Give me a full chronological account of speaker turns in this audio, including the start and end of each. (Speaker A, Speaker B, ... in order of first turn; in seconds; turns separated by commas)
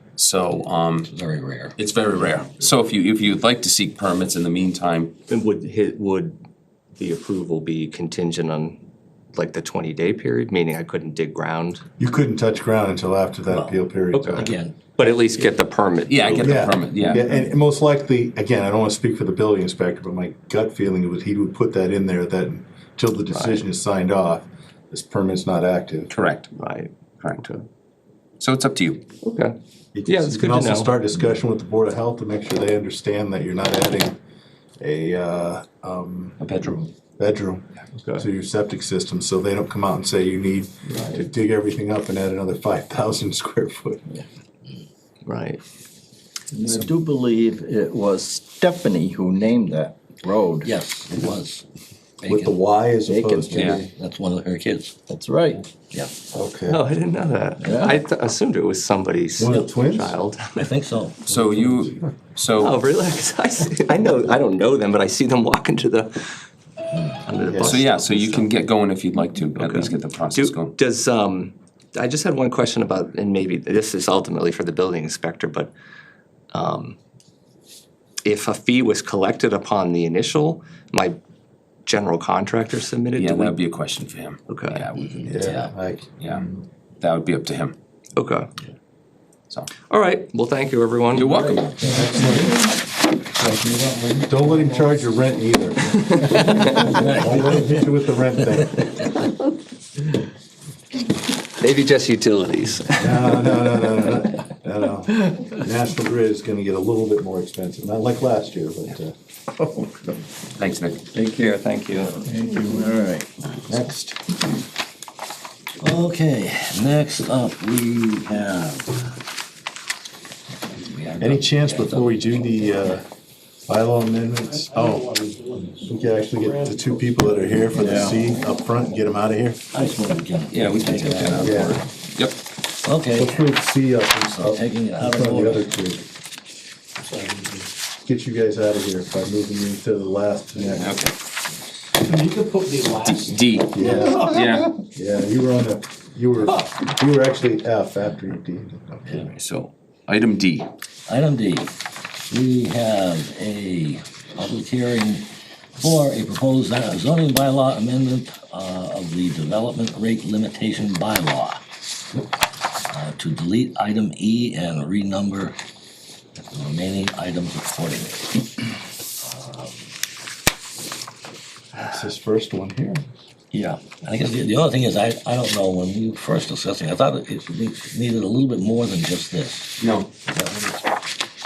Speaker A: 0.2-1.1, Speaker B: 1.1-1.8, Speaker A: 1.8-5.2, Speaker C: 5.3-6.4, Speaker C: 7.0-8.8, Speaker C: 9.3-11.8, Speaker D: 12.0-14.5, Speaker B: 13.5-13.8, Speaker C: 14.1-16.8, Speaker B: 14.3-14.8, Speaker A: 16.1-17.2, Speaker D: 16.4-26.1, Speaker C: 23.3-23.6, Speaker A: 26.1-26.5, Speaker C: 26.5-27.7, Speaker A: 28.4-29.1, Speaker C: 29.2-29.5, Speaker D: 29.9-34.2, Speaker C: 30.1-30.9, Speaker D: 34.8-36.5, Speaker A: 36.4-36.9, Speaker D: 37.2-44.0, Speaker C: 38.0-38.2, Speaker C: 40.9-41.2, Speaker C: 45.2-45.6, Speaker E: 46.5-50.7, Speaker B: 50.6-51.6, Speaker B: 52.2-52.6, Speaker D: 52.3-53.8, Speaker E: 53.0-53.9, Speaker B: 53.4-55.0, Speaker A: 53.6-53.8, Speaker E: 55.1-55.6, Speaker D: 56.4-56.8, Speaker C: 56.7-60.7, Speaker E: 57.6-58.0, Speaker D: 59.4-60.2, Speaker B: 60.5-61.2, Speaker A: 61.3-62.8, Speaker C: 62.6-66.1, Speaker C: 67.2-68.6, Speaker D: 67.5-67.9, Speaker A: 67.6-70.8, Speaker C: 69.5-75.7, Speaker C: 76.5-77.0, Speaker C: 78.2-81.2, Speaker C: 81.8-83.6, Speaker A: 83.2-85.6, Speaker C: 84.5-84.9, Speaker D: 85.2-86.5, Speaker B: 85.4-85.7, Speaker A: 86.2-86.5, Speaker A: 87.0-87.8, Speaker C: 88.2-88.5, Speaker C: 89.8-91.3, Speaker A: 91.1-91.7, Speaker E: 91.2-92.4, Speaker D: 91.8-92.6, Speaker E: 93.4-94.6, Speaker D: 94.2-98.9, Speaker C: 96.0-97.1, Speaker C: 101.6-103.5, Speaker D: 103.0-109.1, Speaker A: 110.6-111.1, Speaker C: 111.1-112.2, Speaker E: 112.1-113.3, Speaker A: 113.7-114.2, Speaker B: 115.8-119.0, Speaker B: 120.7-122.7, Speaker D: 121.2-123.1, Speaker D: 123.7-125.0, Speaker F: 124.5-127.0, Speaker D: 125.9-129.6, Speaker E: 127.8-128.2, Speaker B: 129.7-131.8, Speaker A: 130.5-132.4, Speaker D: 131.4-131.8, Speaker B: 132.8-133.6, Speaker D: 133.1-136.0, Speaker B: 134.2-135.7, Speaker F: 137.0-137.7, Speaker D: 138.0-141.0, Speaker A: 140.8-141.1, Speaker F: 141.9-144.3, Speaker A: 143.0-144.7, Speaker D: 143.7-149.3, Speaker A: 149.2-150.7, Speaker B: 151.1-151.7, Speaker B: 152.3-161.6, Speaker B: 162.9-165.6, Speaker B: 166.4-168.4, Speaker B: 169.2-169.9, Speaker D: 171.8-173.0, Speaker B: 173.5-180.9, Speaker A: 179.8-180.1